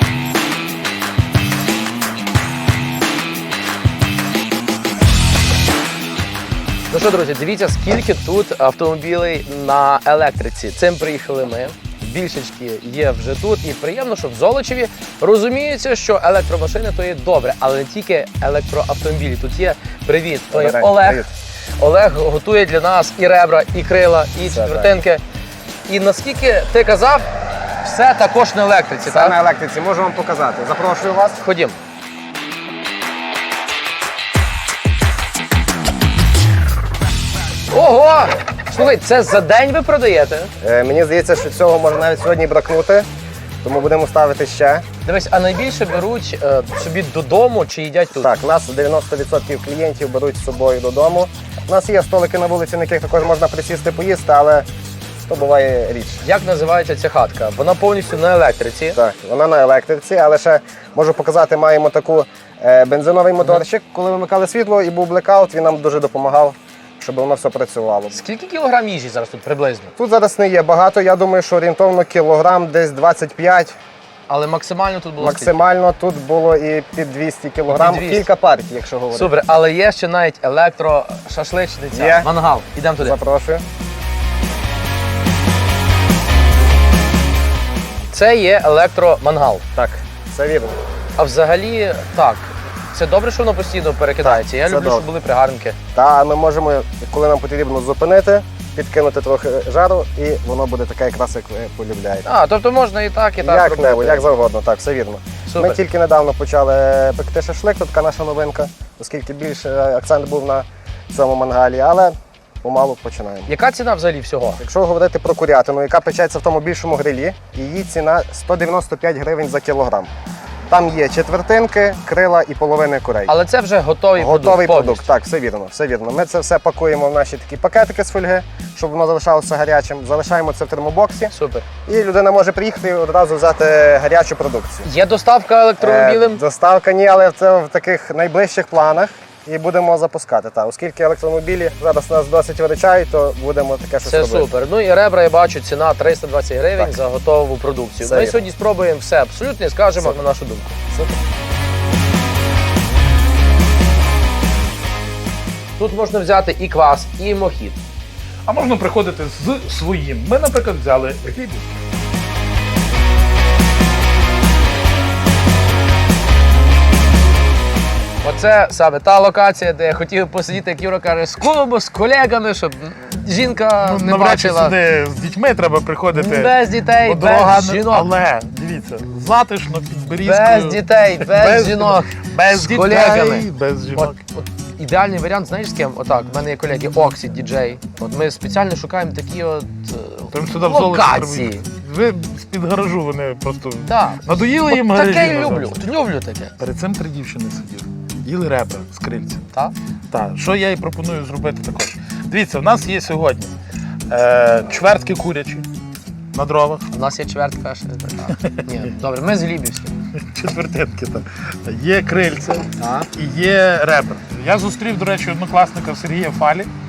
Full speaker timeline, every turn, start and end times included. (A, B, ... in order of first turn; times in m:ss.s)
0:06.9-0:21.3 A
0:20.5-0:21.3 B
0:21.8-0:25.2 A
0:24.5-0:25.0 B
0:25.9-0:27.3 A
0:27.8-0:29.4 A
0:29.1-0:31.4 B
0:31.4-0:31.8 A
0:37.7-0:40.5 A
0:40.6-0:43.1 B
0:43.6-0:44.8 B
0:45.0-0:48.3 A
0:48.2-0:54.7 B
0:55.2-0:56.2 B
0:56.2-0:59.0 A
0:59.0-1:08.2 B
1:08.1-1:09.9 A
1:10.0-1:13.8 B
1:14.3-1:15.6 A
1:15.2-1:19.3 B
1:17.7-1:18.3 A
1:19.1-1:23.2 A
1:21.9-1:22.3 B
1:23.0-1:23.6 B
1:28.1-1:29.7 A
1:29.8-1:30.8 B
1:31.2-1:35.8 A
1:34.2-1:35.1 B
1:36.0-1:42.3 B
1:42.3-1:44.3 A
1:43.4-1:53.5 B
1:45.5-1:45.8 A
1:53.5-1:54.6 A
1:54.6-2:00.1 B
2:00.7-2:03.3 B
2:03.3-2:05.1 A
2:04.2-2:11.3 B
2:11.3-2:11.7 A
2:11.9-2:14.9 B
2:14.8-2:16.4 A
2:15.8-2:24.5 B
2:24.1-2:30.8 A
2:28.0-2:28.4 B
2:30.0-2:30.2 B
2:30.9-2:31.2 B
2:35.8-2:37.8 A
2:38.5-2:41.7 C
2:48.2-2:54.8 A
2:53.8-3:04.2 C
2:56.1-2:58.1 A
3:00.2-3:11.6 A
3:10.3-3:15.9 C
3:13.9-3:16.6 A
3:16.6-3:19.4 C
3:20.1-3:23.5 C
3:24.1-3:25.7 C
3:26.3-3:26.9 C
3:26.9-3:29.9 A
3:28.3-3:28.9 C
3:30.1-3:36.7 C
3:32.8-3:33.1 A